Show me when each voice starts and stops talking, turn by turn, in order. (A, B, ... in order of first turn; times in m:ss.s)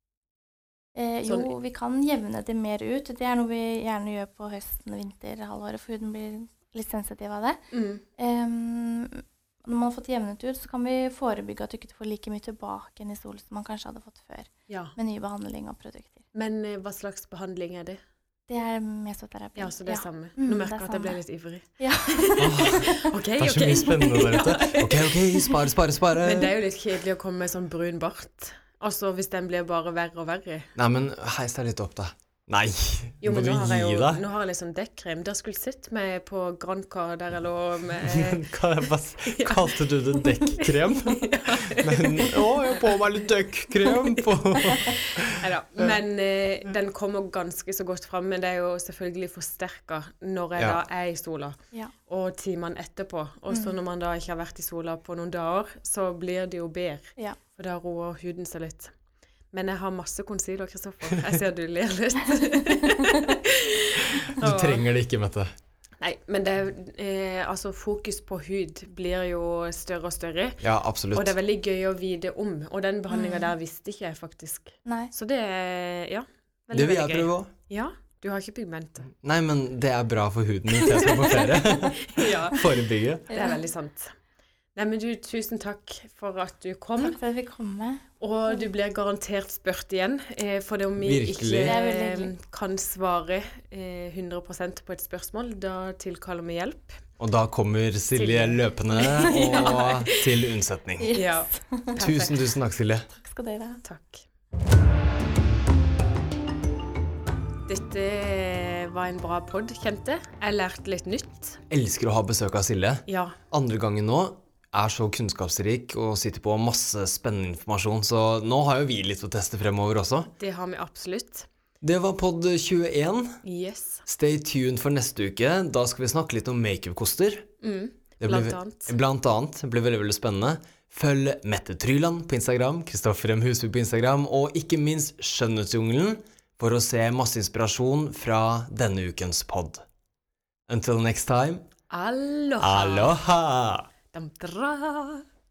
0:01.0-0:07.6 A
0:07.7-0:08.0 B
0:08.2-0:16.2 A
0:14.7-0:15.0 B
0:16.3-0:18.0 B
0:18.5-0:21.2 A
0:19.6-0:25.6 B
0:21.8-0:23.1 A
0:22.4-0:22.8 C
0:23.4-0:26.5 C
0:26.2-0:30.7 B
0:30.8-0:34.2 C
0:33.2-0:43.3 B
0:38.0-0:45.8 C
0:43.8-0:58.9 B
0:53.5-0:53.7 A
0:59.5-1:04.8 B
1:02.8-1:03.3 A
1:04.3-1:05.5 C
1:06.0-1:19.1 B
1:10.6-1:11.3 C
1:13.1-1:13.5 A
1:14.8-1:15.1 A
1:16.7-1:17.5 C
1:19.2-1:23.3 C
1:21.4-1:24.1 B
1:23.3-1:23.6 A
1:24.7-1:27.2 B
1:27.0-1:28.6 A
1:28.2-1:37.0 B
1:31.0-1:31.8 C
1:31.6-1:32.3 A
1:37.2-1:41.1 C
1:38.1-1:40.4 B
1:39.3-1:39.8 A
1:41.0-1:41.9 A
1:41.1-1:42.4 B
1:42.0-1:43.1 C
1:43.1-1:43.8 A
1:43.8-1:44.2 B
1:47.7-1:51.6 B
1:51.7-2:00.3 C
1:53.1-1:53.4 B
2:00.4-2:01.5 B
2:01.8-2:03.4 C
2:03.4-2:04.0 B
2:04.1-2:07.5 C
2:07.6-2:08.9 B
2:08.2-2:19.8 C
2:20.7-2:21.6 C
2:21.9-2:23.1 B
2:22.6-2:23.9 C
2:24.1-2:25.2 B